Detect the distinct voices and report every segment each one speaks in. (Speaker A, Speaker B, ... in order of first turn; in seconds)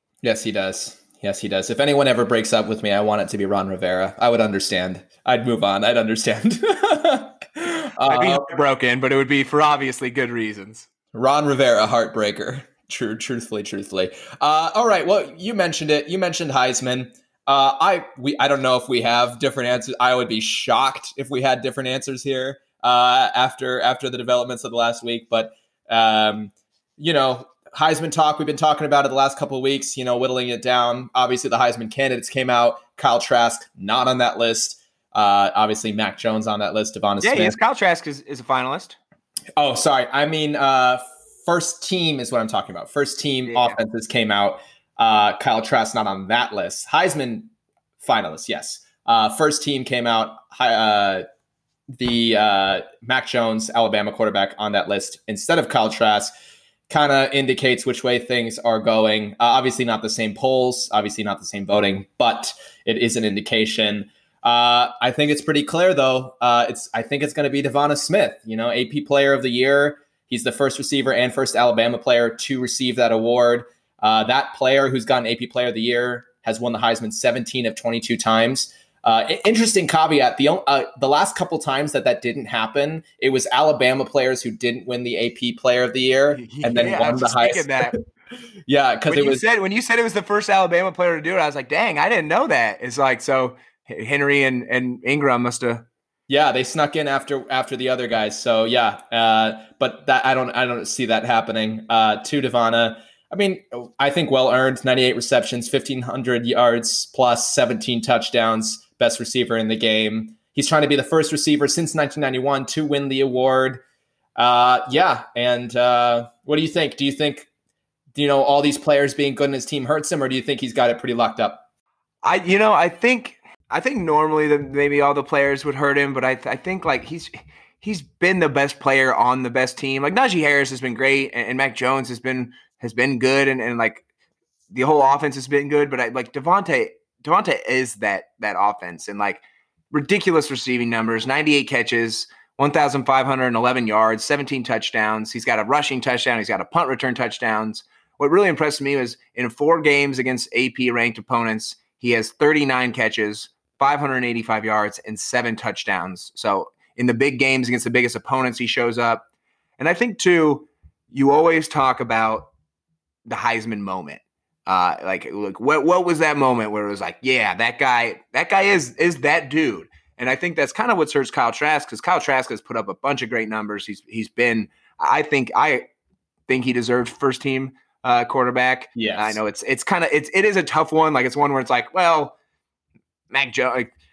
Speaker A: 0.2-8.5, 11.1-37.5, 39.6-51.2, 52.0-56.3, 56.9-88.0, 88.7-89.5, 96.3-113.8, 114.4-117.5, 118.2-121.7, 178.9-179.4
Speaker B: 8.1-10.9, 37.2-39.0, 43.5-43.8, 86.4-88.0, 89.1-95.9, 122.2-134.1, 134.7-159.2, 159.8-162.5, 163.3-175.9, 176.5-182.4, 183.3-183.9